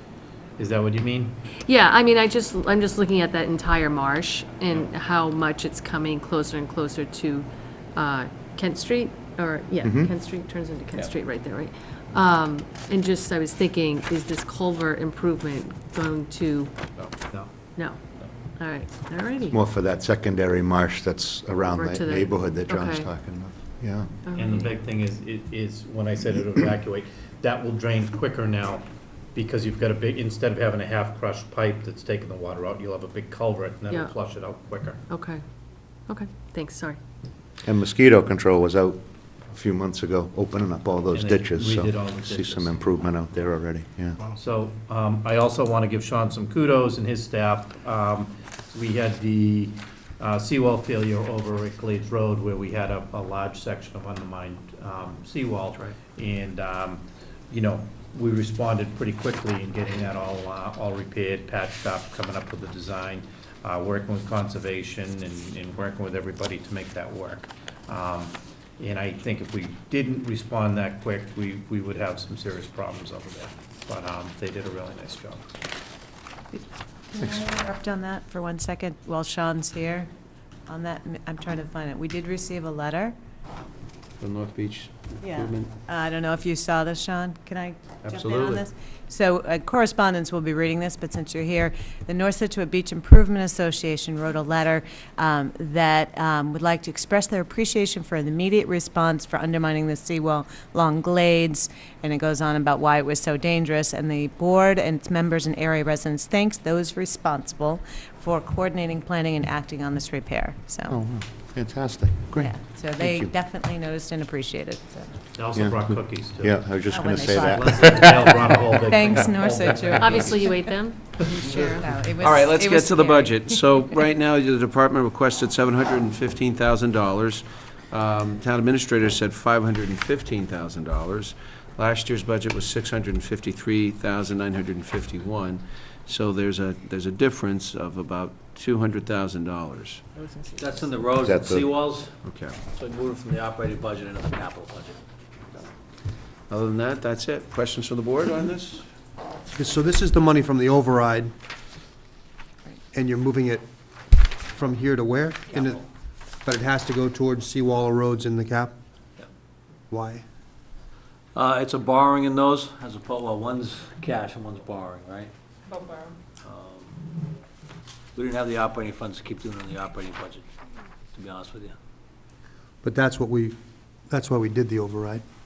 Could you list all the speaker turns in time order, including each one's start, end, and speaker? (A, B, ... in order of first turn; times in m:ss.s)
0:00.6-0:01.4 A
0:01.7-0:16.7 B
0:09.8-0:10.1 C
0:17.8-0:18.0 B
0:18.6-0:19.6 B
0:19.5-0:24.1 C
0:21.6-0:23.1 B
0:24.2-0:24.8 B
0:24.4-0:28.8 A
0:29.4-0:35.0 A
0:35.1-0:35.4 B
0:36.1-0:37.0 B
0:37.6-0:39.0 C
0:39.5-0:44.2 C
0:41.1-0:42.9 A
0:44.4-1:15.4 A
1:16.5-1:20.1 D
1:20.7-1:23.2 D
1:24.2-1:25.7 E
1:25.2-1:51.0 D
1:28.0-1:28.6 E
1:50.9-1:53.3 C
1:52.4-1:55.1 D
1:55.4-1:56.6 A
1:55.6-1:58.5 C
1:56.9-2:00.7 D
1:57.2-2:00.4 A
2:00.0-2:01.8 B
2:01.3-2:03.6 D
2:02.2-2:20.1 E
2:20.5-2:25.0 F
2:21.2-2:21.7 C
2:22.2-2:22.6 E
2:26.5-2:28.9 E
2:29.6-2:31.3 G
2:32.9-2:33.6 G
2:34.5-2:35.8 G
2:35.5-2:35.8 F
2:36.4-2:38.7 G
2:39.9-2:40.2 G
2:41.3-2:45.3 F
2:46.4-2:47.0 F
2:48.2-2:50.5 F
2:51.1-2:51.8 F
2:52.8-2:53.6 G
2:54.1-2:55.2 G